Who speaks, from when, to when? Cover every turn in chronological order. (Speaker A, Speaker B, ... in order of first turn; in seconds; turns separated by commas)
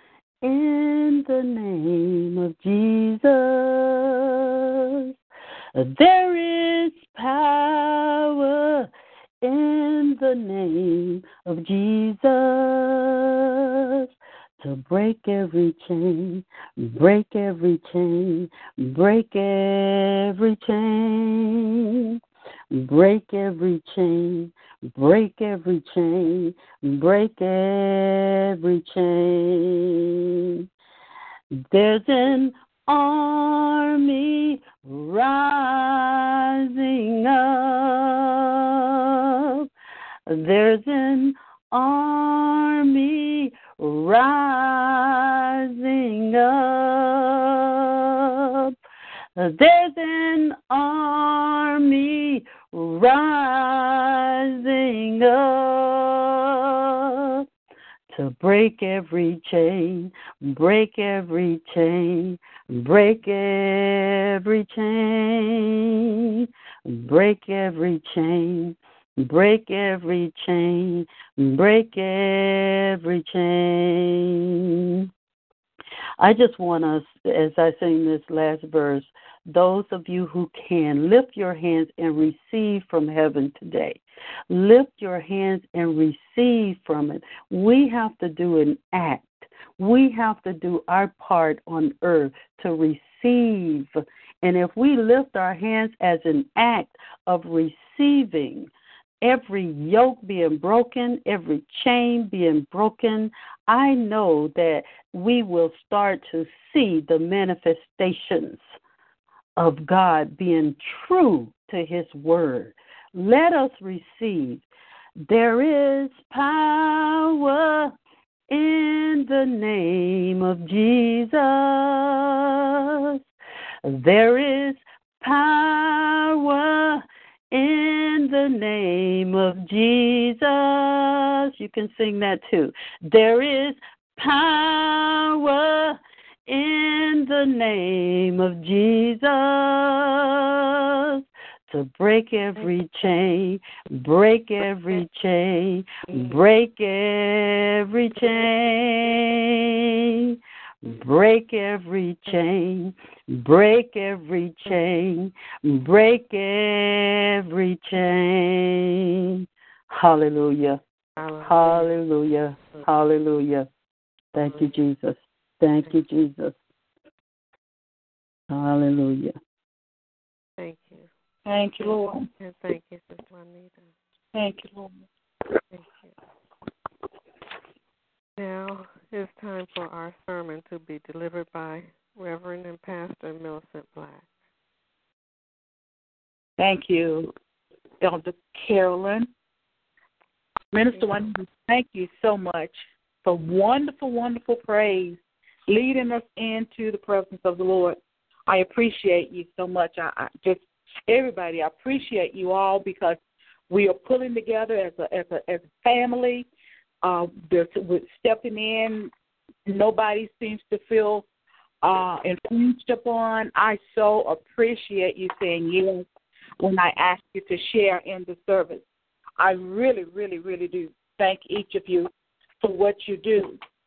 Speaker A: 0.4-5.1, Speaker A: 5.7-8.9, Speaker A: 9.4-22.1, Speaker A: 22.7-30.6, Speaker A: 31.5-39.7, Speaker A: 40.3-48.7, Speaker A: 49.4-57.4, Speaker A: 58.1-75.1, Speaker A: 76.2-98.7, Speaker A: 99.2-108.6, Speaker A: 109.6-114.6, Speaker A: 115.2-118.0, Speaker A: 118.5-123.2, Speaker A: 123.8-160.8, Speaker B: 161.2-161.9, Speaker A: 161.4-163.7, Speaker A: 164.3-166.6, Speaker A: 168.5-169.3, Speaker B: 170.6-171.1, Speaker C: 171.4-172.2, Speaker B: 171.8-173.9, Speaker C: 174.3-175.0, Speaker B: 175.7-176.1, Speaker B: 178.4-184.2, Speaker C: 186.6-187.3, Speaker C: 188.0-189.3, Speaker C: 190.7-203.2, Speaker C: 203.7-206.5, Speaker C: 207.0-209.1, Speaker C: 209.7-211.2, Speaker C: 211.8-216.0, Speaker C: 216.6-218.8, Speaker C: 219.4-222.1, Speaker C: 222.6-223.6